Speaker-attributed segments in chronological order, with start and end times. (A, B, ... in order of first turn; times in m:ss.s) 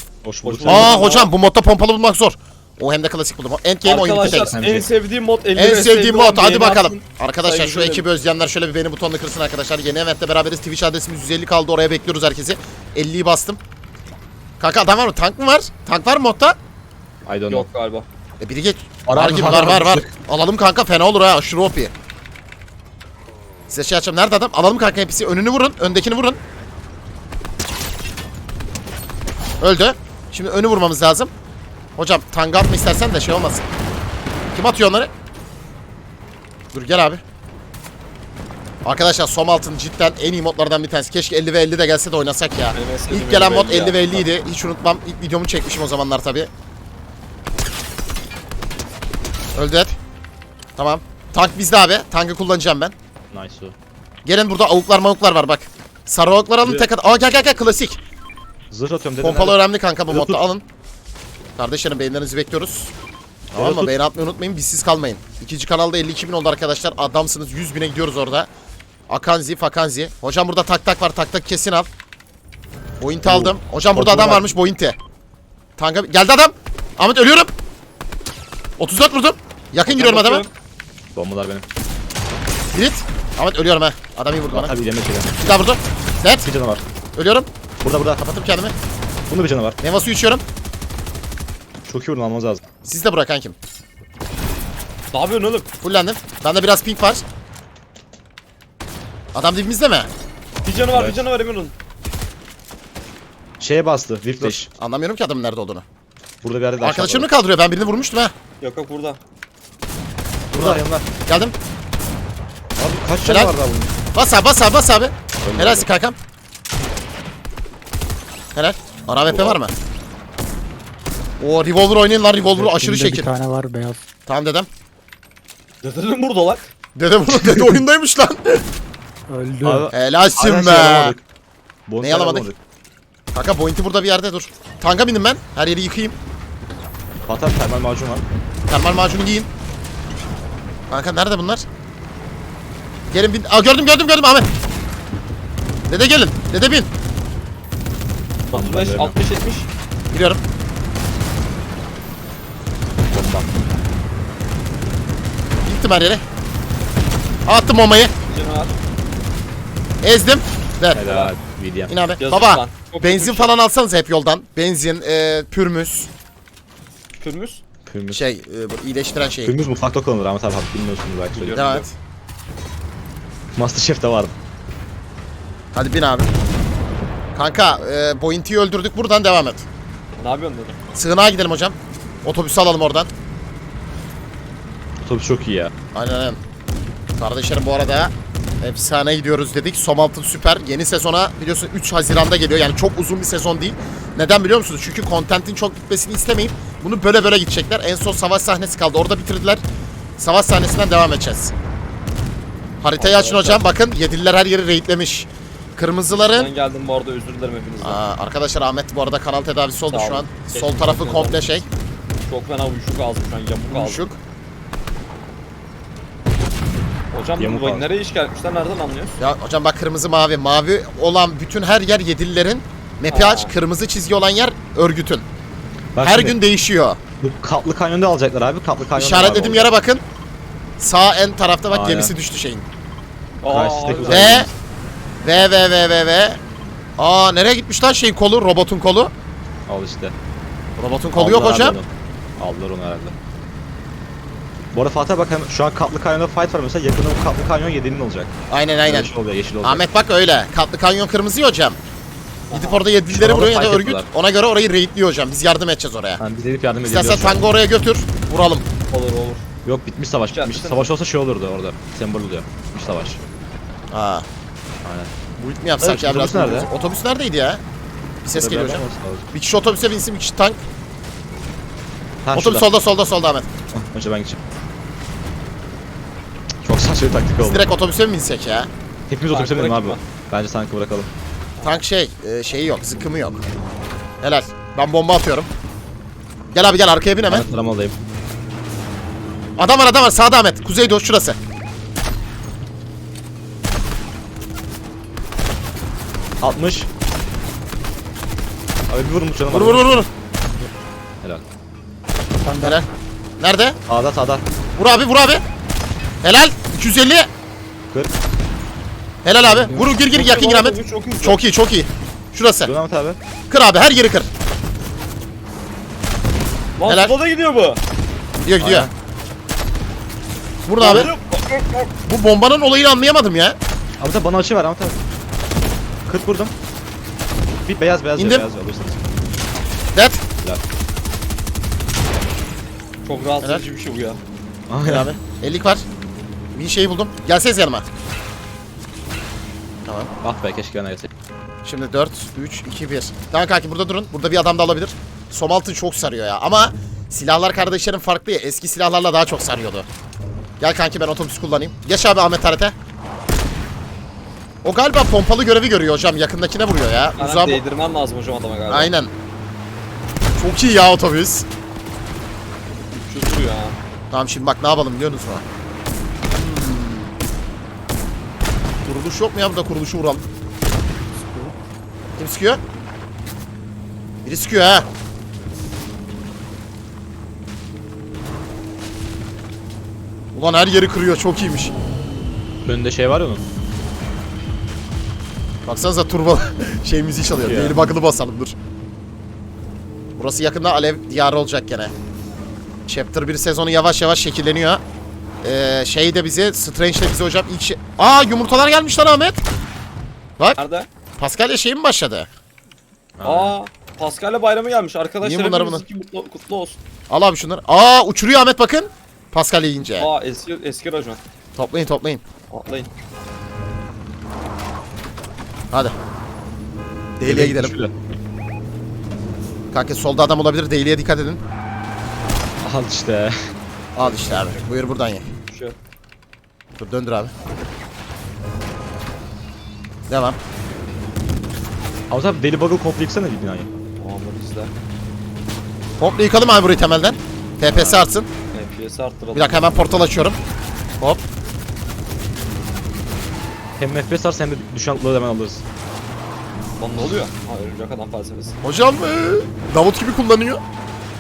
0:00.2-0:01.0 A
0:00.4-0:01.3 B
0:00.6-0:04.6 C
0:03.8-0:08.1 B
0:04.0-0:04.9 A
0:05.6-0:13.6 C
0:14.6-0:16.6 C
0:17.3-0:17.7 A
0:17.5-0:18.1 B
0:18.4-0:21.9 C
0:19.1-0:20.1 A
0:23.7-0:26.4 C
0:29.6-0:31.3 C
0:32.0-0:33.6 C
0:34.5-0:35.1 C
0:36.7-0:37.2 C
0:38.8-0:46.5 C
0:42.7-0:44.3 B
0:49.6-0:50.0 C
0:50.8-0:52.9 C
0:53.3-0:53.8 A
0:54.2-0:58.0 C
0:56.6-0:56.9 A
0:58.7-1:00.4 A
0:59.2-1:00.6 C
1:01.6-1:02.9 C
1:03.5-1:04.0 A
1:03.6-1:08.5 C
1:09.1-1:11.9 C
1:13.0-1:15.0 C
1:13.2-1:14.6 A
1:15.8-1:17.5 C
1:18.8-1:20.5 C
1:19.9-1:20.5 B
1:21.2-1:21.6 A
1:22.7-1:24.7 C
1:24.5-1:25.4 A
1:25.4-1:26.5 C
1:26.4-1:26.8 A
1:27.2-1:27.5 C
1:27.8-1:28.2 A
1:28.1-1:28.8 C
1:29.3-1:29.8 A
1:29.8-1:30.4 C
1:31.9-1:32.6 A
1:32.8-1:33.6 C
1:35.1-1:35.7 B
1:35.8-1:37.2 C
1:39.3-1:40.1 C
1:40.6-1:41.8 B
1:40.9-1:41.2 A
1:43.6-1:44.7 A
1:44.4-1:45.8 C
1:46.4-1:47.3 A
1:46.8-1:48.3 C
1:48.6-1:49.2 B
1:50.5-1:51.1 A
1:50.5-1:51.6 C
1:52.8-1:53.9 A
1:53.2-1:53.5 C
1:54.1-1:56.2 C
1:55.4-1:55.9 A
1:58.5-1:59.7 C
1:59.3-1:59.6 A
2:01.4-2:03.3 C
2:02.6-2:04.0 D
2:04.3-2:04.7 C
2:05.8-2:06.7 B
2:07.0-2:08.6 C
2:09.3-2:09.9 D
2:09.6-2:11.2 A
2:09.9-2:11.2 C
2:11.9-2:12.6 A
2:12.0-2:12.5 C
2:13.3-2:16.2 C
2:17.3-2:18.2 A
2:18.7-2:19.5 C
2:20.9-2:21.6 C
2:23.1-2:24.5 C
2:25.9-2:26.9 C
2:28.5-2:29.7 B
2:28.5-2:29.2 A
2:30.1-2:30.4 C
2:33.1-2:33.5 A
2:35.6-2:36.2 C
2:37.5-2:38.1 C
2:38.3-2:38.7 B
2:40.0-2:41.0 C
2:40.9-2:41.9 A
2:41.0-2:41.3 B
2:41.9-2:46.1 C
2:42.2-2:43.5 B
2:47.2-2:47.6 B
2:47.9-2:48.2 A
2:48.1-2:49.6 C
2:49.4-2:51.6 A
2:51.3-2:51.9 B
2:51.5-2:51.9 C
2:53.6-2:54.4 A
2:55.7-2:56.3 C
2:57.3-2:59.7 C
3:00.2-3:00.8 B
3:00.9-3:03.1 C
3:05.0-3:05.7 A
3:05.9-3:06.4 C
3:07.2-3:19.6 C
3:20.2-3:21.5 C
3:22.8-3:26.5 C
3:23.0-3:23.6 B
3:26.3-3:28.0 B
3:27.8-3:31.7 C
3:29.9-3:31.5 B
3:32.3-3:34.1 B
3:33.7-3:34.2 C
3:37.1-3:39.2 B
3:37.4-3:37.9 A
3:39.2-3:45.3 C
3:43.1-3:43.5 B
3:45.9-3:46.4 A
3:46.0-3:47.0 C
3:47.2-3:49.8 A
3:49.0-3:50.0 C
3:50.8-3:52.6 C
3:51.7-3:52.1 A
3:53.4-3:54.4 B
3:53.5-3:54.5 A
3:54.1-3:54.5 C
3:55.2-3:56.4 C
3:57.0-3:59.1 C
3:59.7-4:00.2 A
4:00.8-4:01.8 C
4:01.1-4:03.2 A
4:04.7-4:08.3 A
4:08.5-4:09.1 C
4:08.9-4:09.8 A
4:09.6-4:11.8 C
4:12.5-4:12.9 B
4:12.5-4:16.2 C
4:13.1-4:14.1 A
4:16.2-4:17.4 A
4:16.8-4:18.6 C
4:18.9-4:19.4 B
4:19.6-4:23.2 A
4:20.3-4:20.9 B
4:23.9-4:24.3 C
4:24.8-4:25.1 A
4:25.4-4:27.6 C
4:25.8-4:26.7 A
4:28.2-4:30.6 C
4:28.3-4:29.3 A
4:32.2-4:32.7 A
4:32.4-4:33.5 C
4:33.7-4:34.4 A
4:36.6-4:37.7 A
4:37.4-4:38.7 C
4:39.1-4:41.1 A
4:39.3-4:40.0 B
4:41.6-4:43.4 C
4:44.2-4:45.5 C
4:46.5-4:47.5 C
4:47.3-4:48.0 A
4:49.6-4:51.4 C
4:56.4-4:56.9 A
4:58.9-5:00.0 A
4:59.5-5:00.1 C
5:02.4-5:02.8 D
5:02.6-5:02.9 C
5:03.4-5:03.8 C
5:03.9-5:04.4 A
5:04.8-5:05.4 C
5:06.2-5:07.3 C
5:09.2-5:12.7 C
5:09.4-5:09.9 D
5:10.1-5:11.4 B
5:12.6-5:13.2 A
5:13.5-5:14.3 C
5:16.8-5:17.8 B
5:16.9-5:17.1 C
5:18.4-5:18.9 C
5:18.6-5:18.9 A
5:20.7-5:21.1 C
5:20.8-5:21.9 B
5:22.1-5:23.6 C
5:24.0-5:25.0 A
5:26.1-5:26.5 A
5:27.7-5:29.0 A
5:28.2-5:28.5 C
5:29.9-5:30.2 C
5:33.0-5:34.2 B
5:34.7-5:35.1 A
5:34.8-5:35.8 C
5:36.5-5:37.8 C
5:39.8-5:40.1 C
5:40.2-5:41.1 A
5:41.6-5:49.9 C
5:50.6-5:52.8 C
5:54.6-5:57.6 C
5:57.2-5:58.9 B
5:58.7-5:59.1 C
6:00.4-6:01.5 C
6:02.9-6:03.8 B
6:04.1-6:05.4 C
6:06.3-6:07.1 C
6:08.8-6:10.2 C
6:11.2-6:11.5 D
6:12.2-6:12.6 C
6:14.2-6:14.9 C
6:20.3-6:21.7 C
6:22.6-6:23.4 A
6:25.7-6:28.6 C
6:27.4-6:27.8 A
6:30.2-6:31.9 C
6:32.9-6:34.8 C
6:35.4-6:39.4 C
6:40.6-6:40.9 B
6:41.2-6:42.3 C
6:43.2-6:43.6 A
6:43.2-6:46.8 B
6:45.2-6:45.8 C
6:47.1-6:50.1 C
6:50.0-6:51.2 B
6:51.6-6:52.2 C
6:52.5-6:52.9 B
6:57.2-6:57.8 C
6:57.2-6:57.9 A
6:59.7-7:01.4 C
7:02.6-7:03.5 A
7:04.0-7:05.3 C
7:04.0-7:04.6 B
7:05.5-7:05.8 B
7:06.8-7:07.3 C
7:10.1-7:10.4 C
7:12.1-7:13.7 A
7:14.0-7:14.7 B
7:16.0-7:18.3 C
7:17.7-7:18.0 A
7:18.5-7:19.6 B
7:19.3-7:20.4 C
7:23.8-7:25.6 A
7:26.8-7:28.6 B
7:28.6-7:30.6 C